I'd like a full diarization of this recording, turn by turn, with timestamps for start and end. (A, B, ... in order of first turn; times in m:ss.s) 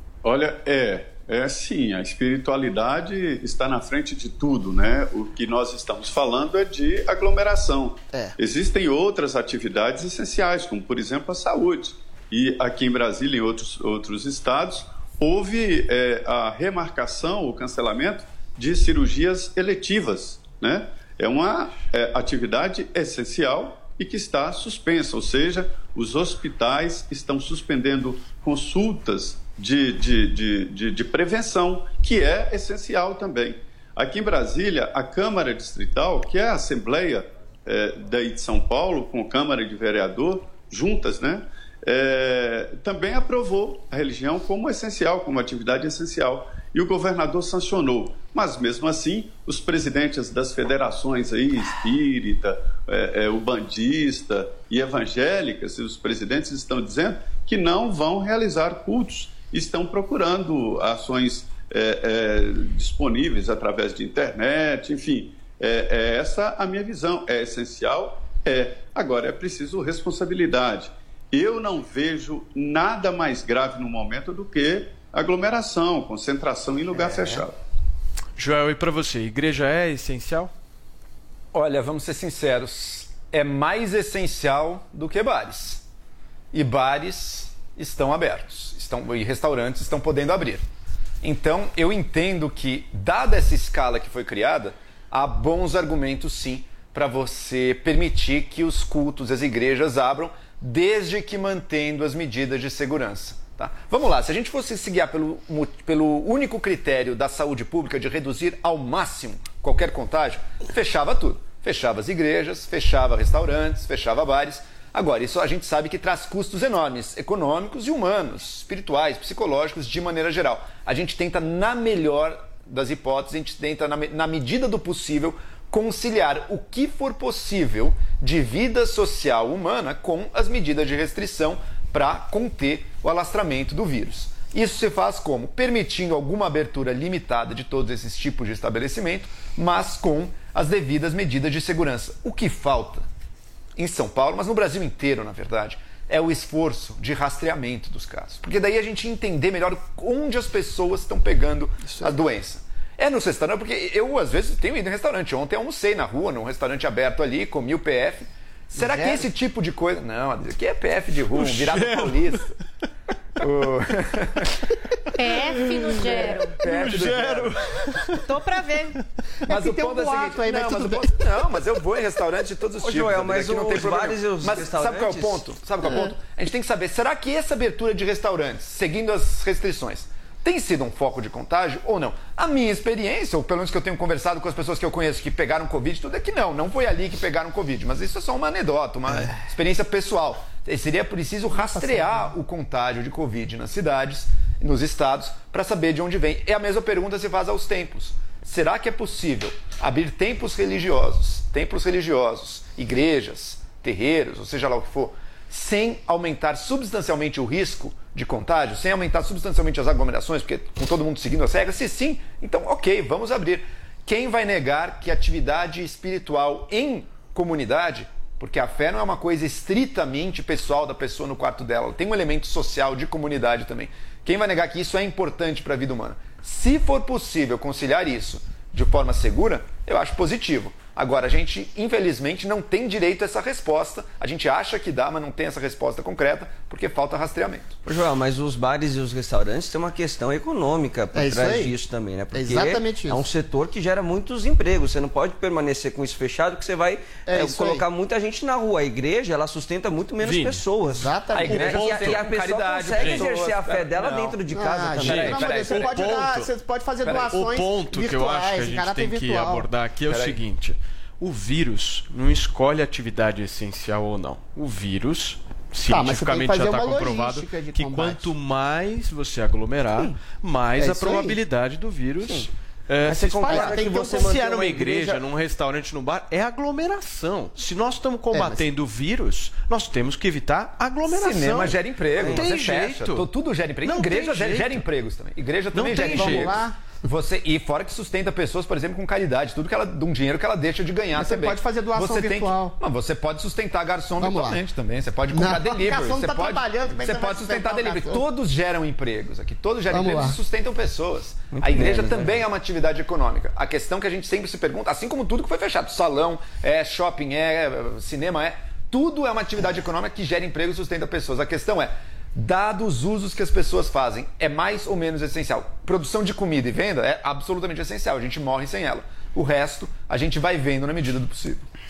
0:00.2-1:17.6 A
1:18.4-1:20.5 B
1:21.5-1:25.8 C
1:26.5-1:30.6 C
1:31.2-2:23.0 C
2:23.8-2:42.5 C
2:38.8-2:39.2 D
2:41.3-2:42.4 B
2:43.4-2:44.6 C
2:45.2-2:46.6 E
2:46.3-2:47.5 C
2:46.6-2:48.2 B
2:48.3-2:48.9 E
2:49.5-2:51.1 D
2:49.5-3:57.8 C
2:52.8-2:55.4 F
3:11.8-3:12.2 D
3:57.9-4:15.6 F
4:01.1-4:01.7 D
4:02.3-4:03.2 D
4:07.3-4:07.8 D
4:10.2-4:10.6 B
4:10.8-4:11.8 D
4:11.3-4:14.4 C
4:11.7-4:12.2 B
4:12.9-4:13.3 B
4:14.5-4:19.7 D
4:15.0-4:16.3 C
4:15.5-4:16.5 B
4:17.0-4:17.4 C
4:17.3-4:43.3 B
4:20.1-4:20.4 C
4:25.9-4:28.3 D
4:30.8-4:31.4 D
4:32.2-4:32.5 F
4:33.0-4:35.2 F
4:33.4-4:34.4 D
4:38.3-4:38.6 D
4:41.1-5:21.6 C
4:42.2-4:42.4 F
4:43.8-4:44.8 B
4:45.7-4:46.6 B
4:46.1-4:46.9 D
4:51.1-4:52.8 D
4:54.2-4:54.6 D
4:55.3-4:58.2 D
4:59.9-5:00.4 D
5:01.6-5:02.4 F